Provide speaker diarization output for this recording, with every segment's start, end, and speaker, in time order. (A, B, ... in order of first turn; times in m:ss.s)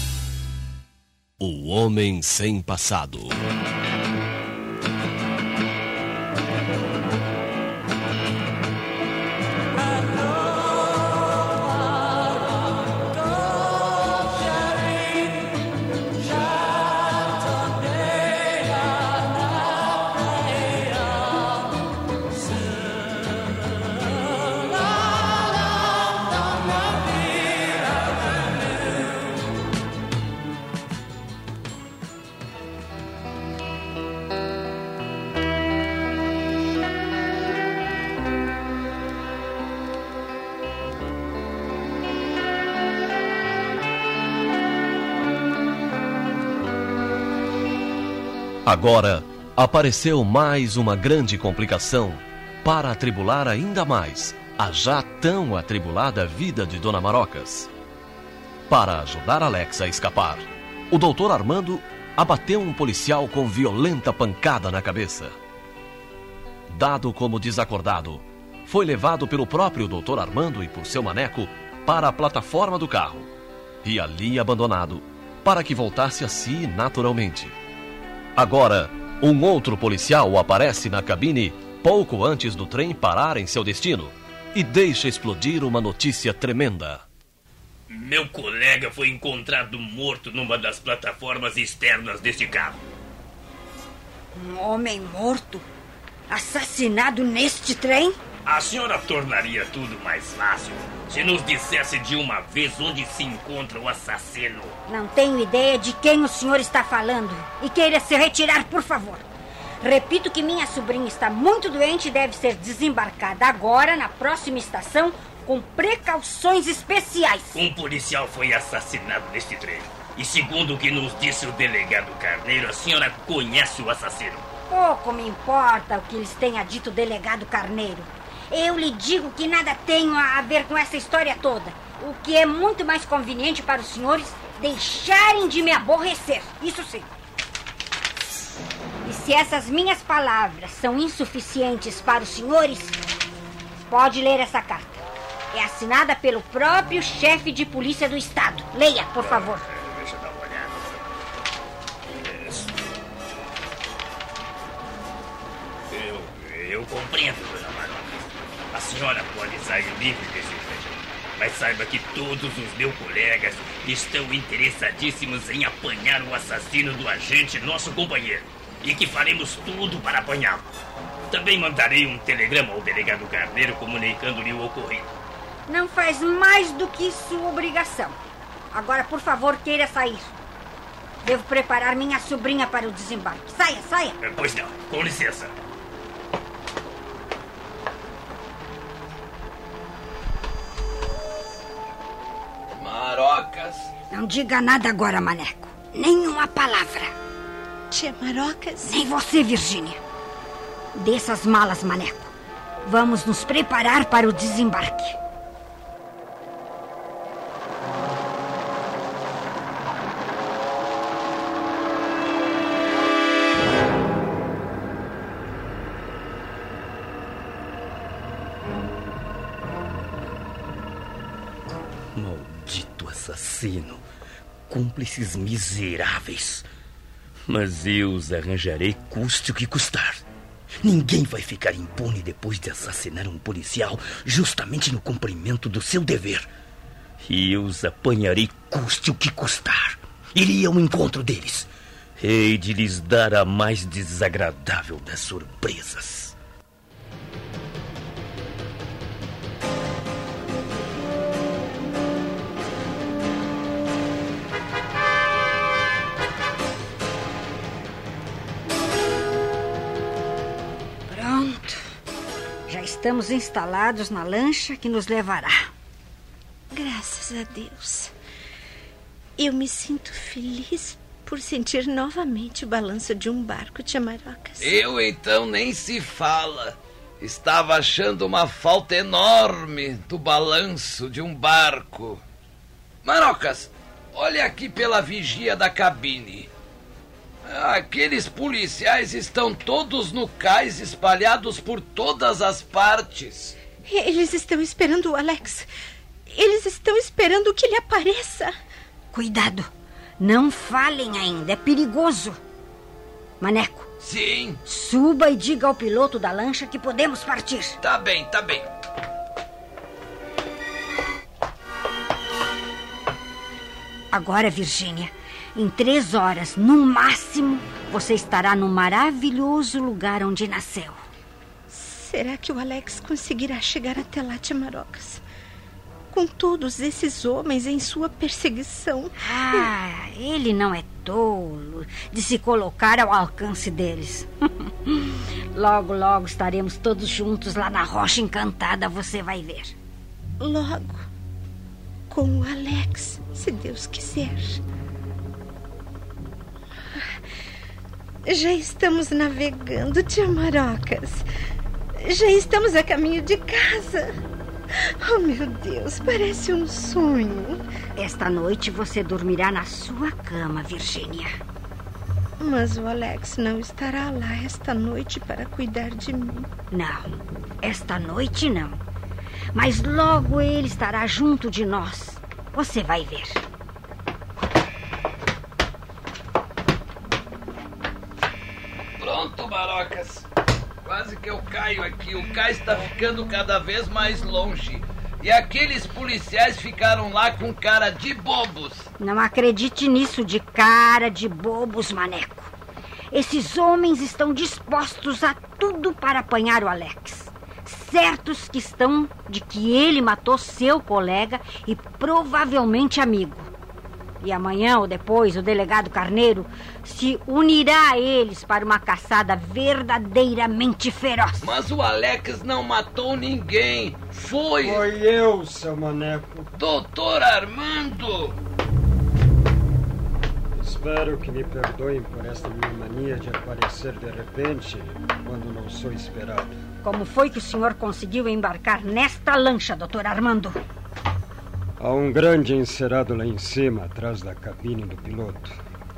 0:01.4-0:03.4 A
0:48.7-0:57.7 A
0:58.7-1:05.3 A
1:06.7-1:13.3 A
1:13.8-1:17.5 A
1:18.4-1:27.1 A
1:27.9-1:32.8 B
1:34.3-1:35.6 C
1:36.3-1:38.2 C
1:38.4-1:44.8 B
1:44.9-1:49.2 C
1:49.8-1:57.6 C
1:57.5-2:04.5 B
2:04.7-2:17.1 C
2:19.0-2:23.0 C
2:23.9-2:25.0 C
2:25.5-2:29.6 C
2:29.2-2:31.0 B
2:32.2-2:32.8 B
2:35.9-2:50.8 B
2:51.3-2:55.1 B
2:55.7-2:58.2 C
2:58.7-3:00.3 C
3:01.2-3:04.2 C
3:04.2-3:05.5 B
3:12.8-3:13.9 D
3:14.1-3:17.1 C
3:17.9-3:19.0 E
3:18.9-3:20.0 C
3:21.0-3:22.3 C
3:22.8-3:25.2 C
3:42.2-3:44.0 F
3:44.7-3:46.6 F
3:47.5-3:50.2 F
3:50.8-3:56.5 F
3:57.2-4:06.4 F
4:21.1-4:21.8 C
4:22.7-4:25.6 C
4:26.7-4:28.1 E
4:29.4-4:34.8 E
4:34.6-4:42.2 D
4:43.0-4:46.5 D
4:47.5-4:53.6 D
4:53.8-4:55.7 E
4:56.3-4:58.6 E
4:59.1-4:59.7 C
5:00.2-5:02.4 C
5:03.4-5:03.9 C
5:04.0-5:04.6 D
5:04.6-5:07.8 C
5:07.8-5:08.7 D
5:14.1-5:21.0 C
5:21.7-5:25.2 E
5:26.1-5:29.7 E
5:29.2-5:39.8 C
5:40.4-5:41.1 E
5:42.1-5:44.6 E
5:48.3-5:51.3 E
5:52.0-5:54.1 E
5:55.0-5:57.6 E
5:58.0-6:01.3 C
6:02.4-6:06.5 E
6:06.7-6:07.1 C
6:07.6-6:08.8 C
6:09.6-6:13.4 C
6:19.0-6:20.2 D
6:20.8-6:28.9 D
6:29.0-6:32.5 C
6:33.1-6:43.5 C
6:44.2-6:51.5 C
6:51.4-6:54.8 D
6:54.6-6:56.5 G
6:56.6-6:58.4 D
7:00.6-7:06.6 G
7:06.8-7:10.6 C
7:11.8-7:15.6 G